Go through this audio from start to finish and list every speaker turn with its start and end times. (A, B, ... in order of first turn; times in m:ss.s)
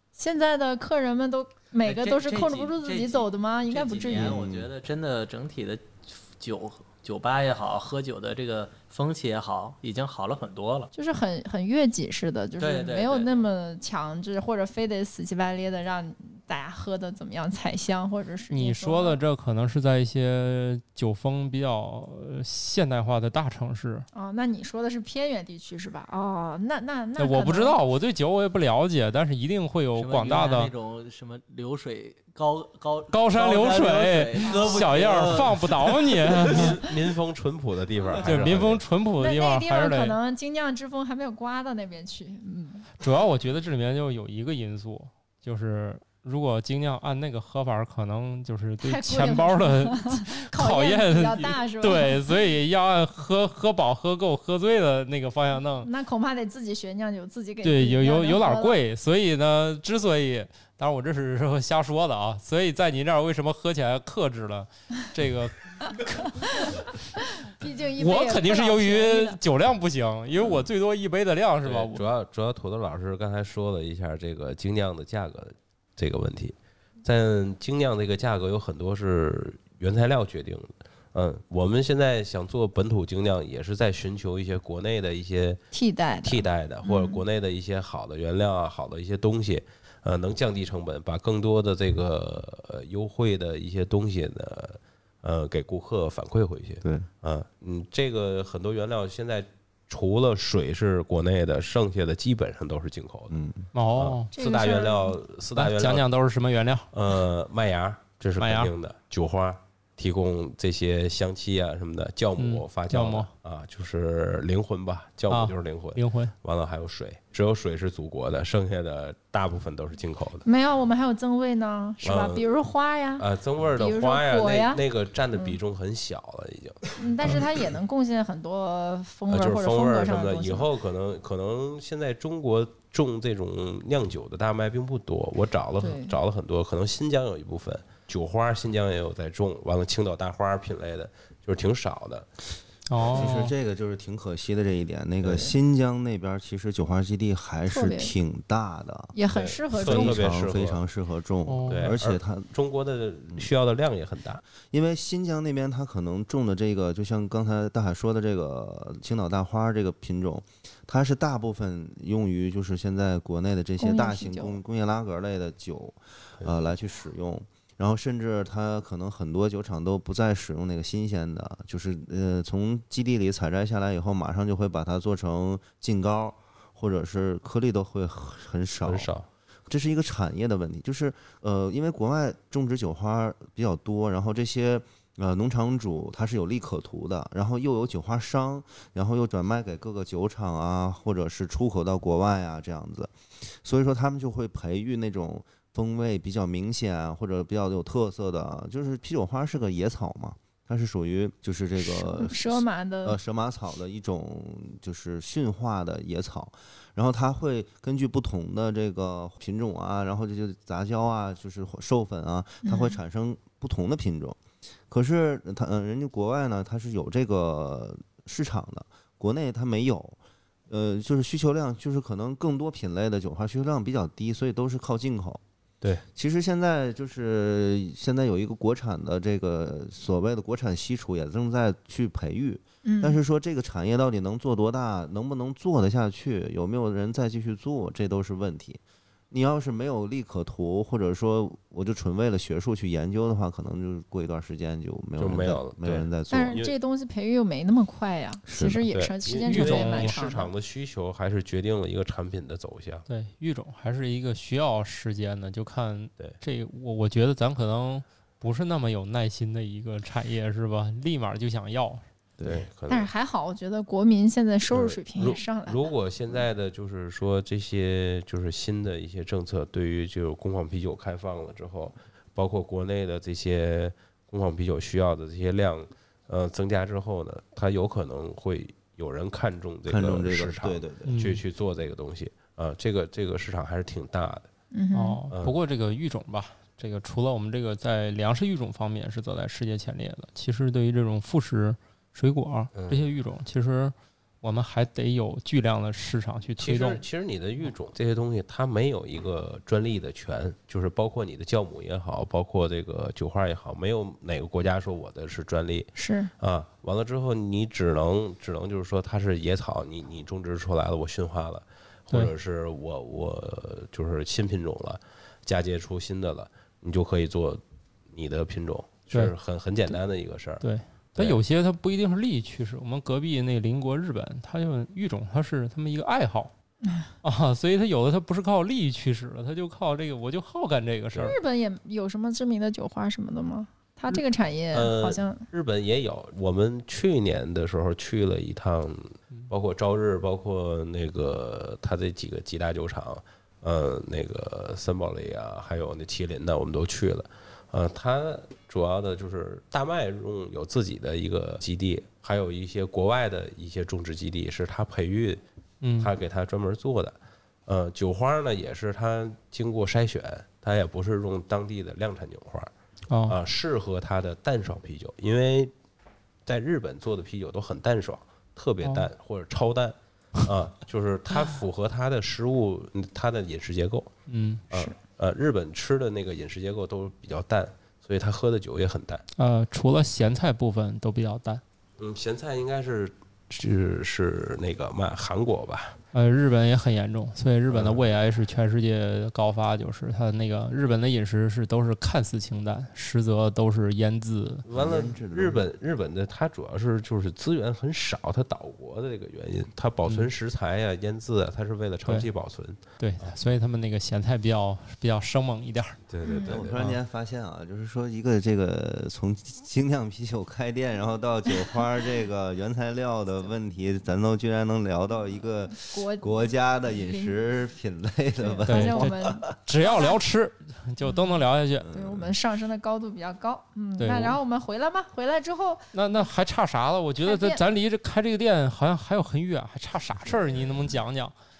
0:00.2-0:04.4 A
0:01.8-0:10.9 B
0:04.1-0:04.7 C
0:10.9-0:19.2 A
0:12.6-0:13.4 B
0:18.5-0:24.1 D
0:24.1-0:27.8 A
0:27.2-0:30.7 D
0:29.9-0:36.8 B
0:33.1-0:36.8 D
0:34.5-0:34.9 A
0:36.4-0:38.8 E
0:38.0-0:38.3 B
0:38.2-0:40.2 D
0:39.2-0:42.9 A
0:43.0-0:55.9 D
0:48.8-0:52.3 A
0:55.8-0:58.8 A
0:57.6-1:06.3 D
1:07.4-1:09.4 A
1:08.0-1:12.0 D
1:11.6-1:25.6 E
1:25.7-1:27.2 A
1:26.2-1:43.3 E
1:43.3-1:43.7 C
1:43.7-1:44.3 D
1:44.0-1:46.0 E
1:44.3-1:45.2 A
1:45.5-1:46.9 D
1:46.9-2:00.4 E
1:48.4-1:48.7 D
1:52.4-1:53.3 D
1:55.3-1:56.3 D
2:00.4-2:03.2 A
2:02.0-2:02.5 E
2:03.2-2:07.4 E
2:03.8-2:04.8 A
2:05.3-2:05.6 A
2:07.0-2:10.7 A
2:09.3-2:22.3 E
2:15.8-2:16.2 A
2:22.9-2:23.5 D
2:23.1-2:29.1 C
2:27.7-2:28.1 A
2:29.1-2:30.2 A
2:29.3-2:30.8 E
2:29.7-2:32.5 C
2:31.4-2:31.9 D
2:31.7-2:34.4 E
2:34.7-2:59.1 C
2:43.8-2:44.6 A
2:58.8-2:59.3 E
2:59.7-3:34.4 C
3:21.8-3:23.2 A
3:32.6-3:33.0 A
3:34.9-3:45.4 C
3:46.1-4:06.6 C
3:52.8-3:53.2 A
4:05.2-4:06.7 E
4:06.3-4:10.5 A
4:08.4-4:08.9 C
4:08.9-4:13.0 E
4:09.4-4:10.2 D
4:13.1-4:22.0 D
4:22.4-4:22.6 C
4:22.4-4:23.1 E
4:22.9-4:25.9 A
4:24.7-4:44.5 E
4:39.8-4:41.2 C
4:41.0-4:41.4 D
4:44.7-4:45.2 A
4:44.9-4:57.0 D
4:52.7-4:53.0 E
4:56.6-5:17.6 E
5:06.0-5:06.3 A
5:18.1-5:20.6 E
5:20.6-5:26.5 D
5:21.1-5:21.4 E
5:26.8-5:27.1 A
5:27.2-5:31.4 D
5:31.2-5:35.4 A
5:34.7-5:55.4 E
5:55.8-5:56.1 D
5:56.0-5:57.2 E
5:57.7-6:02.7 E
6:03.1-6:03.4 D
6:03.3-6:05.7 E
6:06.4-6:14.1 E
6:14.3-6:14.6 D
6:14.7-6:19.2 E
6:19.4-6:21.6 D
6:22.0-6:26.0 E
6:26.1-6:34.6 D
6:34.6-6:43.3 E
6:34.7-6:35.6 C
6:43.0-6:46.0 D
6:46.1-6:46.8 E
6:46.2-6:46.6 A
6:46.4-6:59.4 C
6:55.7-6:57.4 A
6:58.4-7:00.2 A
6:58.7-7:01.9 D
7:01.1-7:06.2 A
7:01.8-7:02.4 C
7:04.0-7:04.4 D
7:05.9-7:11.3 D
7:07.2-7:07.6 A